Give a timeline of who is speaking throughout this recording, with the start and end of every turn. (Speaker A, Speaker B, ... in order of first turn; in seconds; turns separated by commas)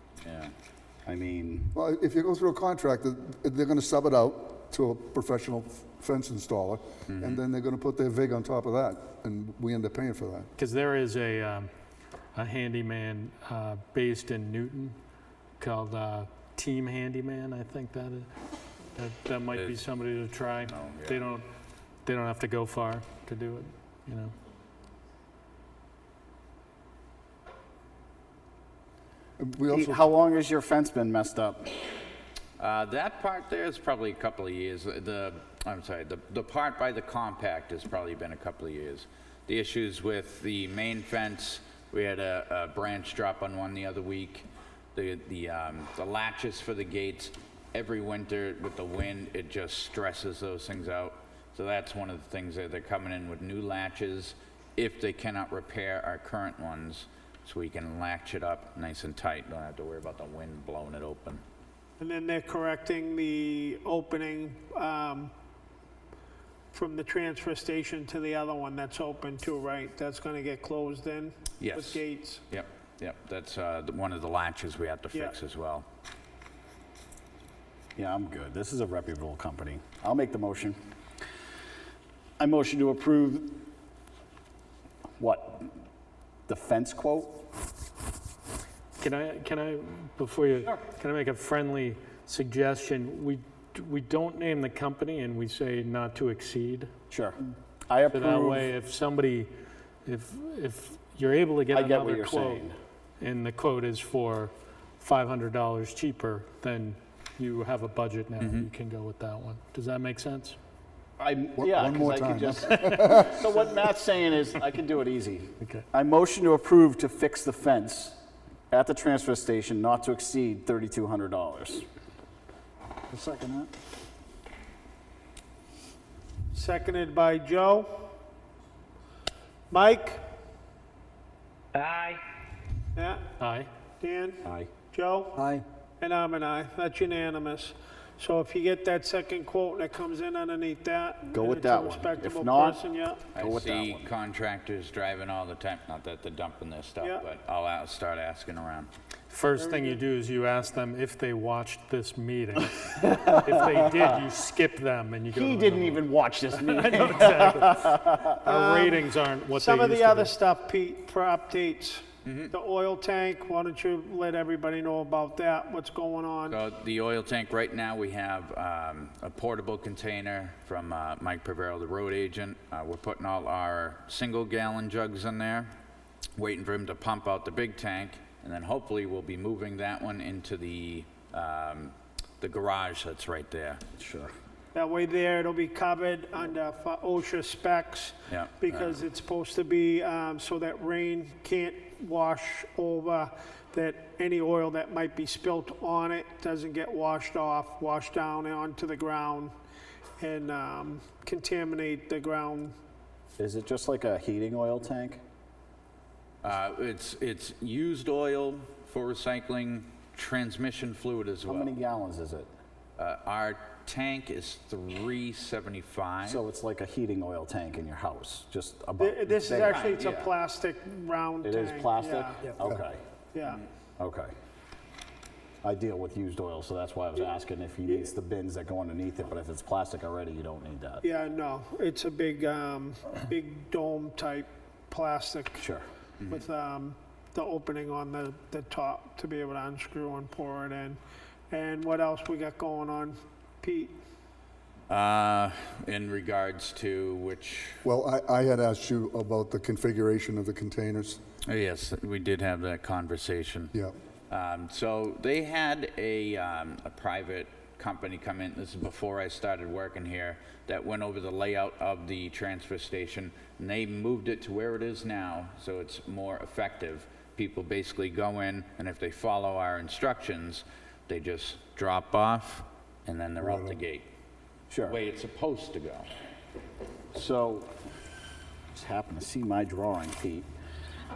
Speaker A: 0.2-0.5, Speaker B: 1.1-1.7, Speaker C: 1.7-10.5, Speaker A: 7.1-7.4, Speaker D: 10.6-11.7, Speaker D: 12.3-14.9, Speaker D: 15.6-18.3, Speaker D: 18.9-21.4, Speaker A: 19.5-19.8, Speaker A: 20.6-21.2, Speaker D: 22.0-24.3, Speaker C: 29.4-30.1, Speaker B: 29.7-31.7, Speaker A: 32.6-61.4, Speaker E: 62.0-65.3, Speaker E: 66.7-72.4, Speaker A: 71.6-75.8, Speaker B: 78.0-80.8, Speaker B: 82.4-83.6, Speaker B: 85.2-85.7, Speaker B: 86.5-87.5, Speaker D: 89.0-96.9, Speaker B: 97.1-98.7, Speaker D: 98.1-99.5, Speaker D: 100.0-102.7, Speaker B: 101.7-102.7, Speaker D: 103.2-110.6, Speaker A: 108.4-108.7, Speaker B: 111.2-118.2, Speaker C: 111.6-113.3, Speaker D: 112.8-113.2, Speaker D: 115.6-115.8, Speaker B: 118.7-121.8, Speaker B: 123.1-123.7, Speaker E: 126.5-128.1, Speaker E: 129.7-130.2, Speaker E: 132.9-133.2, Speaker D: 133.4-133.7, Speaker E: 134.0-143.2, Speaker B: 134.4-134.7, Speaker B: 141.3-142.8, Speaker B: 143.3-144.1, Speaker A: 143.3-148.9, Speaker D: 149.3-156.0, Speaker E: 149.6-150.0, Speaker B: 153.2-154.1, Speaker B: 155.3-158.3, Speaker D: 156.6-160.3, Speaker E: 158.4-159.0, Speaker E: 159.6-166.6, Speaker A: 162.2-162.5, Speaker A: 166.5-175.7, Speaker A: 176.3-183.8, Speaker B: 184.0-184.3, Speaker E: 184.7-199.5, Speaker A: 188.3-189.0, Speaker E: 200.2-202.7, Speaker B: 203.4-205.2, Speaker A: 206.4-211.7, Speaker B: 211.4-212.5, Speaker A: 213.0-216.4, Speaker B: 216.2-219.9, Speaker E: 219.0-222.4, Speaker A: 219.6-220.3, Speaker B: 221.4-223.0, Speaker E: 223.3-223.6, Speaker B: 224.0-224.3, Speaker B: 225.6-231.0, Speaker E: 231.0-235.6, Speaker B: 235.6-235.8, Speaker A: 236.2-236.4, Speaker E: 236.3-244.0, Speaker A: 244.9-247.8, Speaker C: 247.8-251.2, Speaker A: 251.4-253.7, Speaker A: 254.3-274.1, Speaker C: 273.4-273.8, Speaker B: 274.7-275.0, Speaker A: 274.8-276.1, Speaker B: 277.1-277.7, Speaker B: 278.7-280.5